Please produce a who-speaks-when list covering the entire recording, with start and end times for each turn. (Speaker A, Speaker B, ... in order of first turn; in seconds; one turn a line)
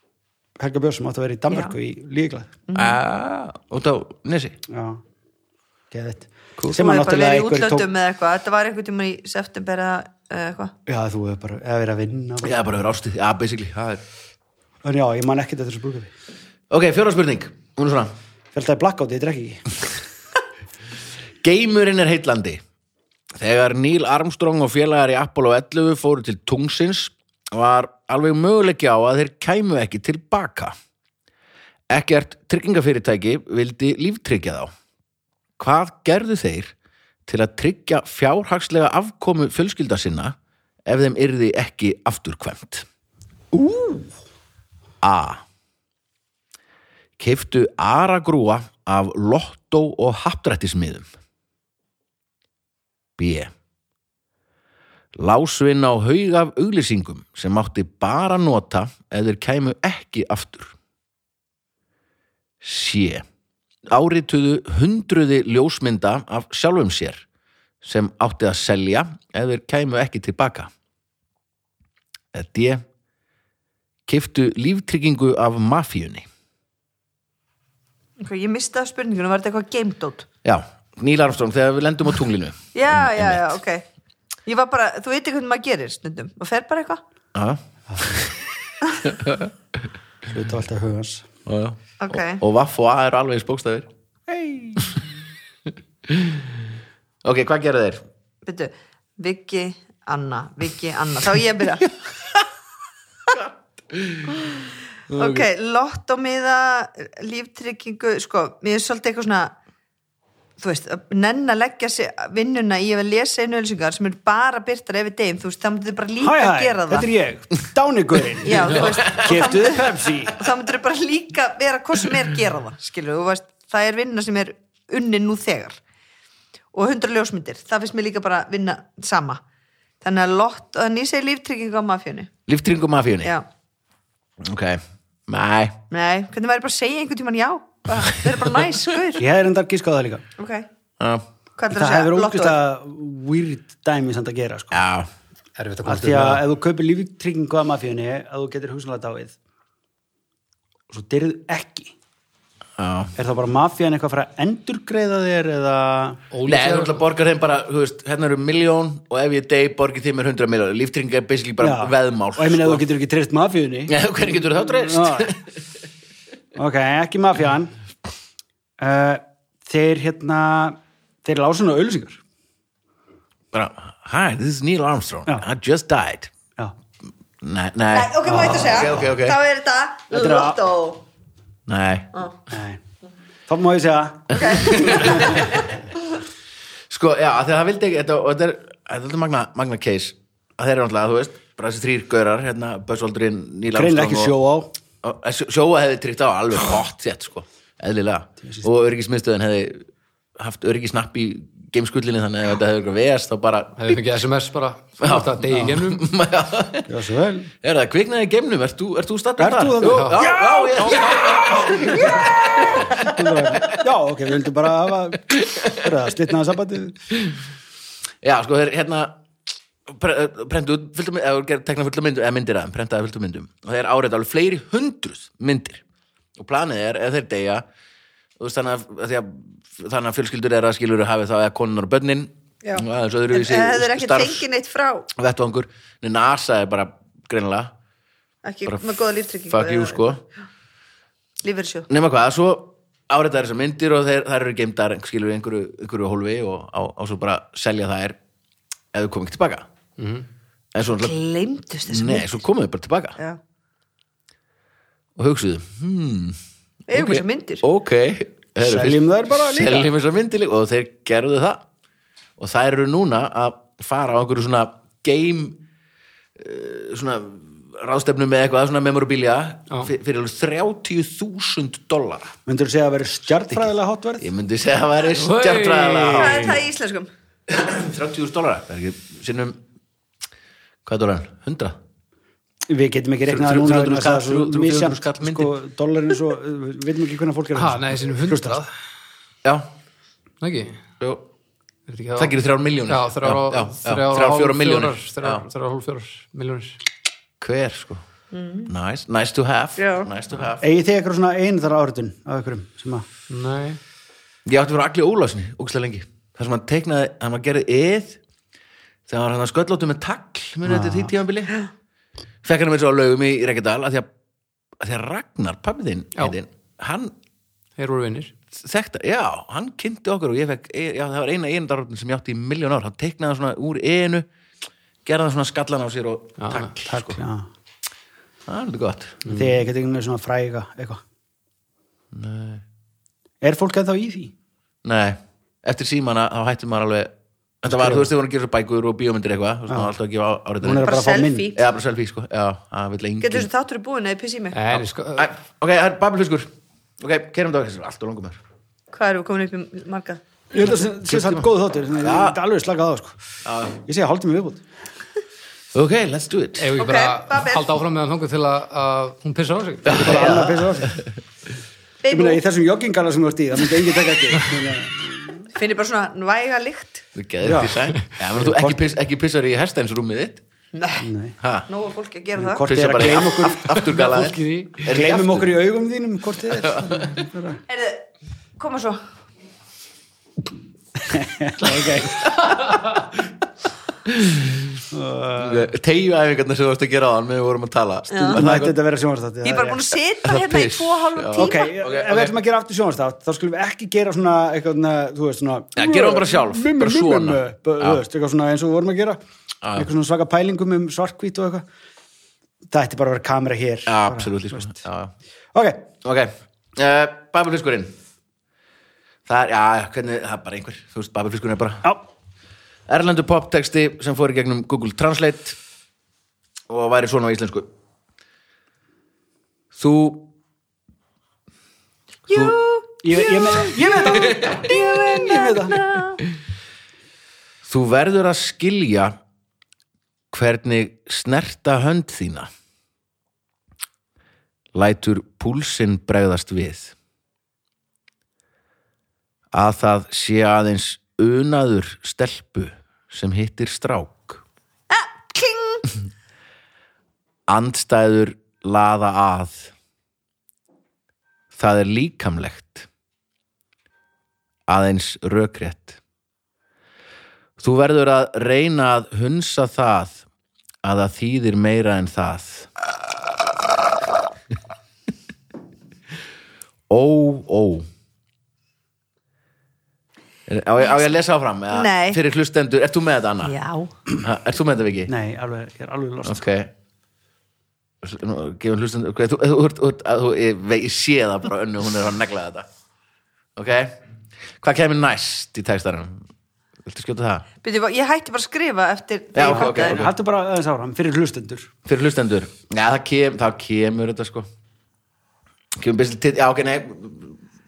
Speaker A: 0.6-2.5
Speaker B: 2.7-3.0
Speaker C: 2.7-4.6
Speaker A: 4.7-5.0
Speaker A: 5.9-7.9
Speaker B: 6.7-10.7
Speaker A: 10.8-12.6
Speaker C: 12.4-14.0
Speaker A: 14.8-16.1
Speaker C: 16.7-18.1
Speaker A: 18.5-19.6
Speaker C: 21.4-22.6
Speaker C: 23.4-30.7
Speaker C: 31.9-34.7
Speaker C: 35.6-36.7
Speaker C: 37.3-40.3
Speaker C: 40.9-42.9
Speaker C: 43.5-44.0
Speaker C: 45.0-45.4
Speaker C: 47.2-51.0
Speaker C: 53.2-53.5
Speaker C: 55.1-60.7
Speaker C: 62.6-63.2
Speaker C: 63.9-67.2
Speaker C: 67.8-70.7
Speaker C: 72.3-72.8
Speaker C: 74.1-76.2
Speaker B: 78.2-80.2
Speaker C: 80.4-83.6
Speaker B: 82.7-83.8
Speaker B: 84.5-87.0
Speaker C: 87.3-88.5
Speaker C: 89.0-89.5
Speaker A: 90.3-91.3
Speaker C: 91.5-93.9
Speaker B: 92.0-92.4
Speaker A: 94.3-94.8
Speaker C: 96.1-96.4
Speaker C: 97.2-98.0
Speaker B: 98.4-102.0
Speaker C: 103.3-104.5
Speaker C: 105.1-105.5
Speaker B: 105.1-109.5
Speaker B: 110.6-117.1
Speaker A: 116.2-120.4
Speaker B: 118.4-125.8
Speaker C: 118.8-119.3
Speaker B: 126.7-129.4
Speaker B: 130.0-132.3
Speaker C: 132.5-133.3
Speaker C: 134.4-135.7
Speaker B: 135.9-139.2
Speaker A: 139.2-140.2
Speaker B: 140.4-140.7
Speaker C: 141.0-141.2
Speaker B: 141.6-142.6
Speaker A: 141.7-144.8
Speaker C: 144.7-145.1
Speaker D: 145.6-146.4
Speaker A: 145.8-149.3
Speaker A: 150.9-151.9
Speaker C: 152.8-153.1
Speaker A: 153.2-156.2
Speaker D: 156.3-157.0
Speaker C: 156.4-162.8
Speaker A: 161.6-163.9
Speaker C: 163.9-165.4
Speaker A: 164.6-165.3
Speaker A: 166.5-167.7
Speaker A: 168.8-172.2
Speaker C: 173.5-176.3
Speaker C: 177.4-179.4
Speaker B: 177.9-181.0
Speaker A: 178.2-179.0
Speaker A: 180.1-180.6
Speaker C: 181.7-182.2
Speaker A: 182.5-182.8
Speaker A: 183.5-185.5
Speaker C: 184.3-185.7
Speaker B: 184.3-185.8
Speaker C: 186.9-194.3
Speaker A: 193.7-194.7
Speaker C: 195.0-199.8
Speaker C: 200.4-204.0
Speaker D: 203.8-206.1
Speaker C: 205.0-206.9
Speaker A: 206.9-207.5
Speaker C: 207.6-213.8
Speaker A: 209.4-212.3
Speaker D: 209.8-210.3
Speaker A: 212.9-217.0
Speaker C: 215.3-215.9
Speaker C: 218.2-219.2
Speaker C: 219.9-225.8
Speaker C: 226.4-227.6
Speaker C: 228.4-234.4
Speaker B: 232.6-235.1
Speaker C: 235.2-237.7
Speaker B: 238.4-240.1
Speaker C: 238.7-240.2
Speaker B: 241.4-241.9
Speaker C: 241.9-248.2
Speaker C: 248.9-249.7
Speaker D: 250.0-250.2
Speaker C: 250.7-251.2
Speaker B: 250.9-252.4
Speaker C: 251.8-253.2
Speaker C: 255.2-256.4
Speaker B: 256.9-257.6
Speaker C: 256.9-261.6
Speaker A: 258.6-259.9
Speaker C: 262.4-265.6
Speaker C: 266.4-272.3
Speaker A: 272.4-274.3
Speaker C: 273.3-273.6
Speaker C: 274.2-276.6
Speaker D: 275.1-276.6
Speaker B: 276.1-277.1
Speaker C: 277.5-279.6
Speaker C: 280.8-281.8
Speaker A: 282.7-288.6
Speaker C: 283.2-285.5
Speaker D: 287.5-288.7
Speaker D: 290.4-290.8
Speaker D: 291.9-292.4
Speaker C: 292.2-295.4
Speaker D: 292.9-296.8
Speaker C: 297.4-298.0
Speaker B: 298.3-298.7
Speaker C: 298.7-300.6
Speaker B: 299.8-300.1
Speaker A: 300.6-303.1
Speaker D: 303.3-303.8
Speaker C: 304.4-308.2
Speaker C: 309.1-311.6
Speaker A: 310.6-311.1
Speaker C: 312.4-314.1
Speaker C: 314.8-317.1
Speaker D: 317.8-318.3
Speaker C: 318.6-324.3
Speaker C: 325.0-327.2
Speaker D: 326.4-326.7
Speaker A: 326.9-327.5
Speaker C: 328.5-329.2
Speaker A: 329.2-331.0
Speaker C: 332.1-332.6
Speaker A: 333.4-334.3
Speaker C: 334.8-340.9
Speaker A: 337.7-338.1
Speaker A: 339.7-339.9
Speaker A: 340.6-341.5
Speaker B: 340.8-341.6
Speaker C: 341.5-343.5
Speaker B: 343.2-344.6
Speaker D: 344.5-345.3
Speaker C: 344.7-346.5
Speaker C: 347.0-348.4
Speaker B: 348.9-350.2
Speaker A: 350.5-353.2
Speaker C: 351.1-352.4
Speaker C: 353.4-353.8
Speaker A: 353.8-354.6
Speaker C: 355.7-356.8
Speaker D: 356.6-360.3
Speaker B: 356.8-357.7
Speaker C: 359.9-361.1
Speaker A: 359.9-361.0
Speaker B: 362.0-362.4
Speaker A: 362.1-365.5
Speaker B: 365.5-367.1
Speaker C: 367.1-370.4
Speaker A: 367.4-368.8
Speaker B: 370.7-371.0
Speaker A: 371.0-371.4
Speaker C: 371.4-371.7
Speaker B: 371.7-373.1
Speaker A: 372.4-373.7
Speaker C: 372.6-375.5
Speaker D: 373.7-374.8
Speaker A: 374.8-377.6
Speaker C: 376.6-377.2
Speaker B: 377.7-378.0
Speaker B: 378.6-379.0
Speaker A: 381.0-382.2
Speaker C: 381.6-383.1
Speaker C: 384.1-384.8
Speaker A: 384.9-385.7
Speaker C: 385.4-388.8
Speaker B: 388.1-388.4
Speaker A: 388.3-389.8
Speaker B: 389.4-391.7
Speaker C: 390.2-392.4
Speaker A: 391.3-399.2
Speaker C: 395.8-398.0
Speaker C: 399.6-399.9
Speaker A: 399.7-401.7
Speaker A: 402.7-404.8
Speaker C: 403.9-405.1
Speaker A: 405.5-405.9
Speaker C: 406.0-407.9
Speaker C: 409.2-411.9
Speaker C: 412.9-415.6
Speaker C: 416.7-417.7
Speaker C: 419.7-420.3
Speaker B: 422.3-426.2
Speaker C: 422.3-422.6
Speaker A: 423.0-425.8
Speaker C: 423.7-424.7
Speaker C: 427.6-429.2
Speaker C: 430.3-432.5
Speaker C: 434.7-436.9
Speaker C: 439.5-444.4
Speaker B: 444.9-445.9
Speaker C: 447.5-449.7
Speaker C: 451.5-452.9
Speaker C: 454.7-456.0
Speaker C: 457.6-460.2
Speaker C: 460.8-462.7
Speaker C: 466.9-467.9
Speaker C: 470.5-473.5
Speaker B: 470.8-471.1
Speaker B: 471.7-472.2
Speaker B: 473.4-473.9
Speaker C: 474.1-475.1
Speaker A: 475.1-476.4
Speaker C: 476.2-476.7
Speaker C: 478.0-482.7
Speaker C: 483.6-483.9
Speaker C: 484.6-486.2
Speaker C: 486.8-487.5
Speaker B: 487.6-490.0
Speaker C: 489.3-490.1
Speaker A: 489.4-491.7
Speaker C: 491.9-494.5
Speaker C: 495.8-497.4